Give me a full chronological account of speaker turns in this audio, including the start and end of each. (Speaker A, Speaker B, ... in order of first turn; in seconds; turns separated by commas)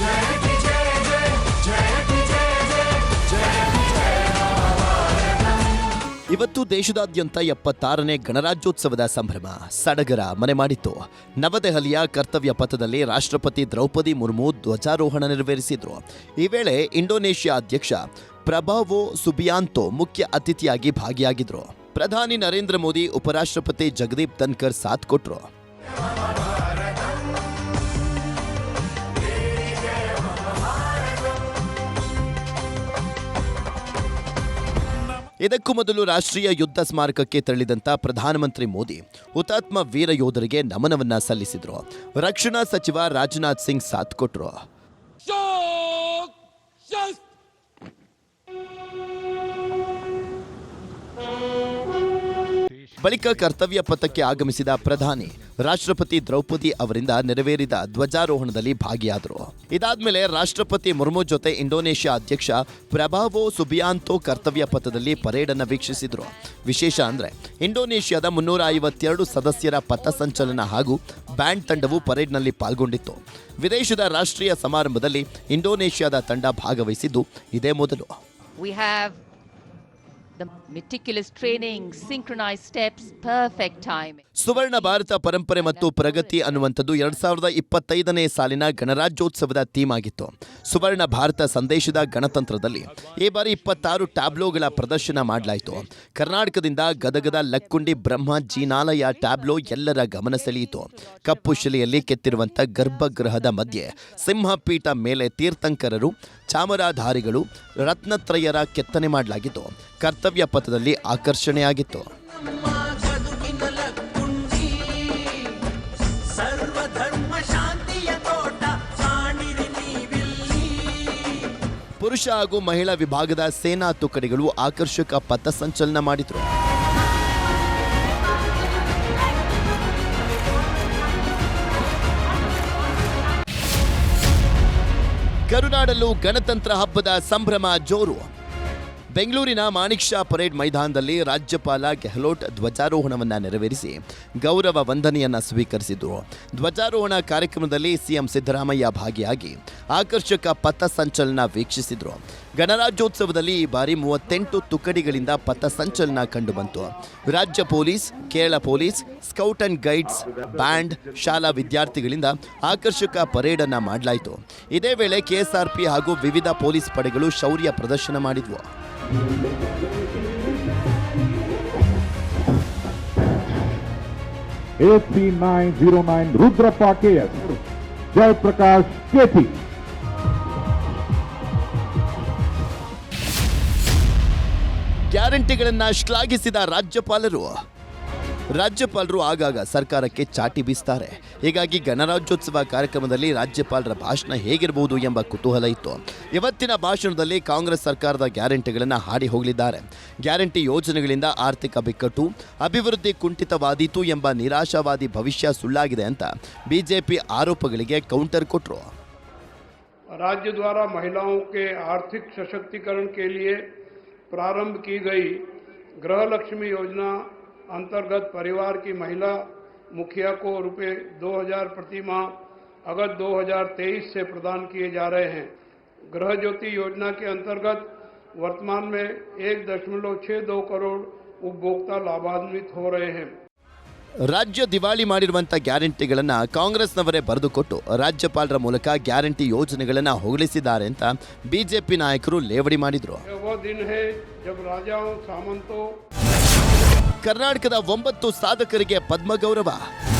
Speaker A: 6.3-25.5, Speaker A: 35.4-44.6, Speaker A: 53.0-78.2, Speaker B: 64.4-67.3, Speaker B: 69.2-72.1, Speaker B: 78.6-79.2, Speaker B: 80.4-87.2, Speaker A: 84.4-112.1, Speaker B: 100.9-101.8, Speaker A: 122.0-126.5, Speaker A: 135.5-138.3, Speaker A: 139.1-168.7, Speaker C: 174.8-177.6, Speaker C: 178.1-179.6, Speaker A: 185.1-187.6, Speaker A: 188.5-208.9, Speaker D: 210.2-213.6, Speaker D: 214.3-215.4, Speaker D: 216.0-217.2, Speaker D: 217.7-219.3, Speaker D: 219.9-222.3, Speaker D: 222.9-225.5, Speaker D: 226.1-227.9, Speaker D: 228.4-233.3, Speaker A: 234.3-243.2, Speaker D: 243.3-245.8, Speaker A: 247.2-249.9